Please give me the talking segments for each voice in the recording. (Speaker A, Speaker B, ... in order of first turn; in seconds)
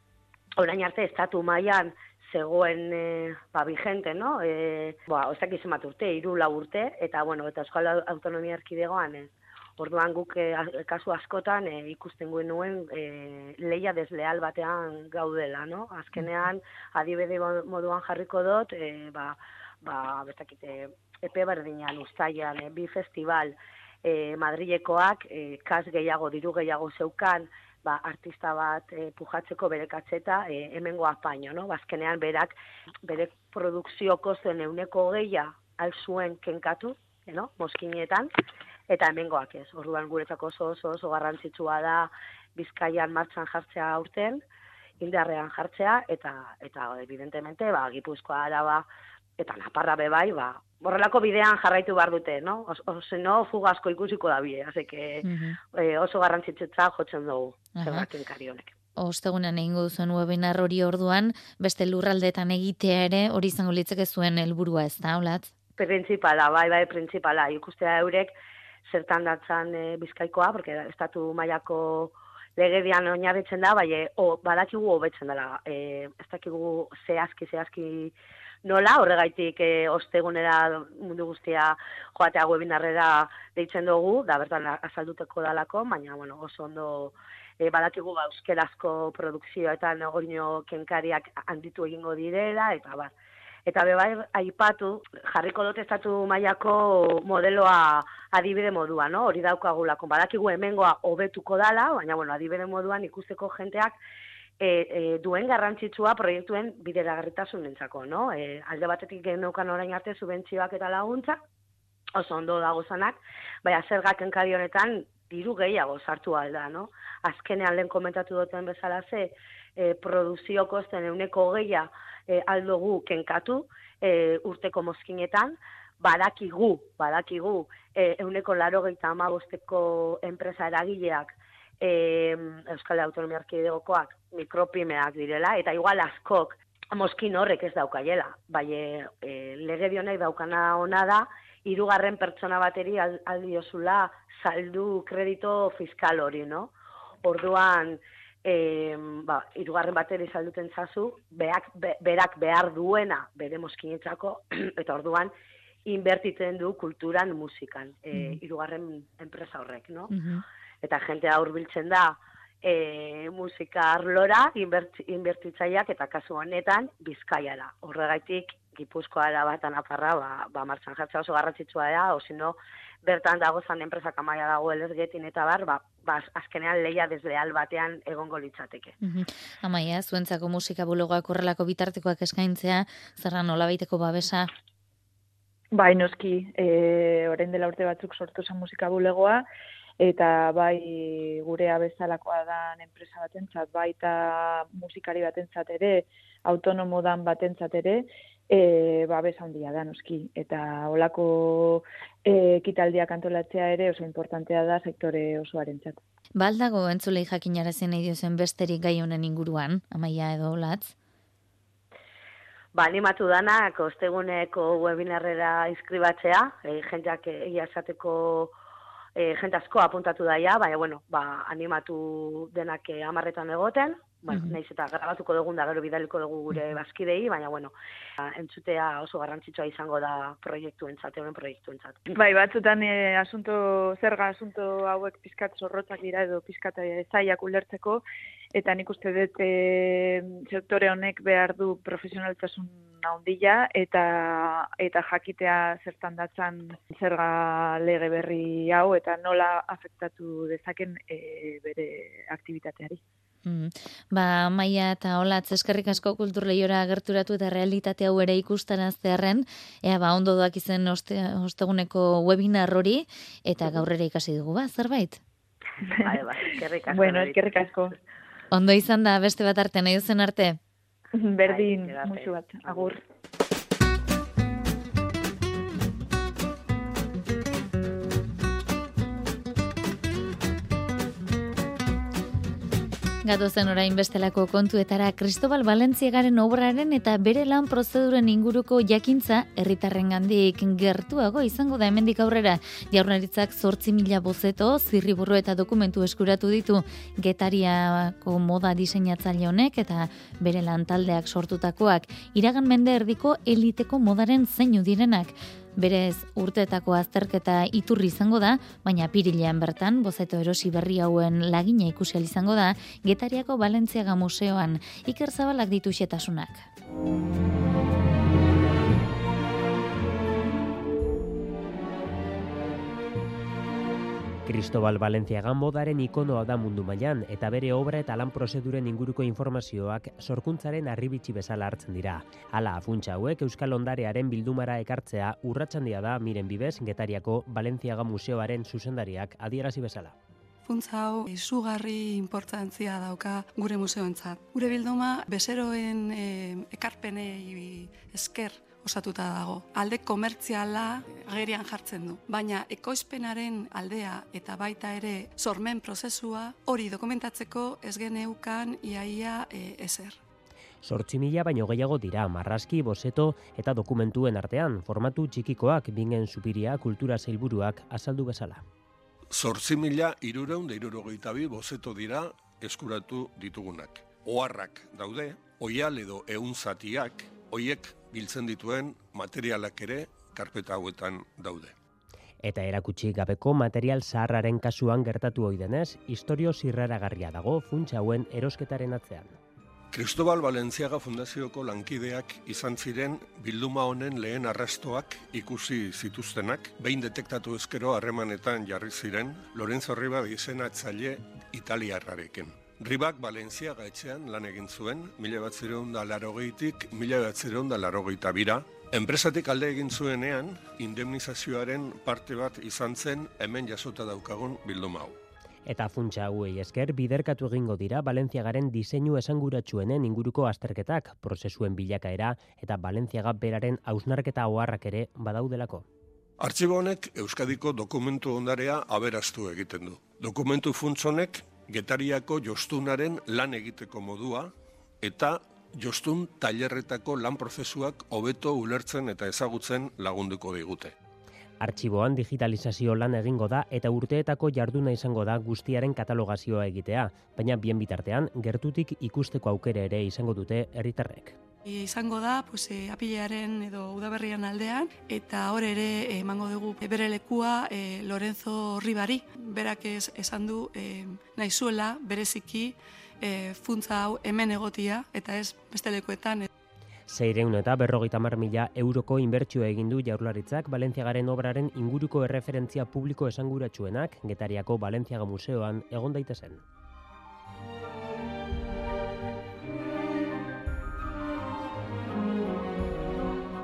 Speaker A: 0.6-32.5, 33.0-38.3, 38.9-44.4, 45.0-48.9, 49.4-58.7, 65.8-68.3, 68.9-93.1, 93.7-103.9, 104.6-111.4, 112.2-146.7, 147.2-155.3, 155.8-160.1, 160.8-178.9, 212.7-218.5, 219.2-232.1, 266.0-267.5, 271.4-272.9
Speaker B: 55.2-55.6, 57.8-58.0, 59.0-65.5, 158.1-158.4, 160.1-160.4, 179.0-184.5, 206.3-210.9, 224.3-224.6, 253.4-265.2, 268.5-270.6, 283.2-316.7
Speaker C: 185.7-189.4, 190.0-206.0, 232.1-238.0, 238.5-253.0, 265.9-266.2, 266.9-267.9, 271.1-273.0
Speaker D: 324.4-340.1, 360.8-368.6, 382.4-389.4, 415.6-425.8, 441.6-451.4, 467.1-476.6
Speaker E: 340.6-360.2, 451.6-466.5
Speaker F: 369.3-381.7, 389.9-415.1, 426.4-440.9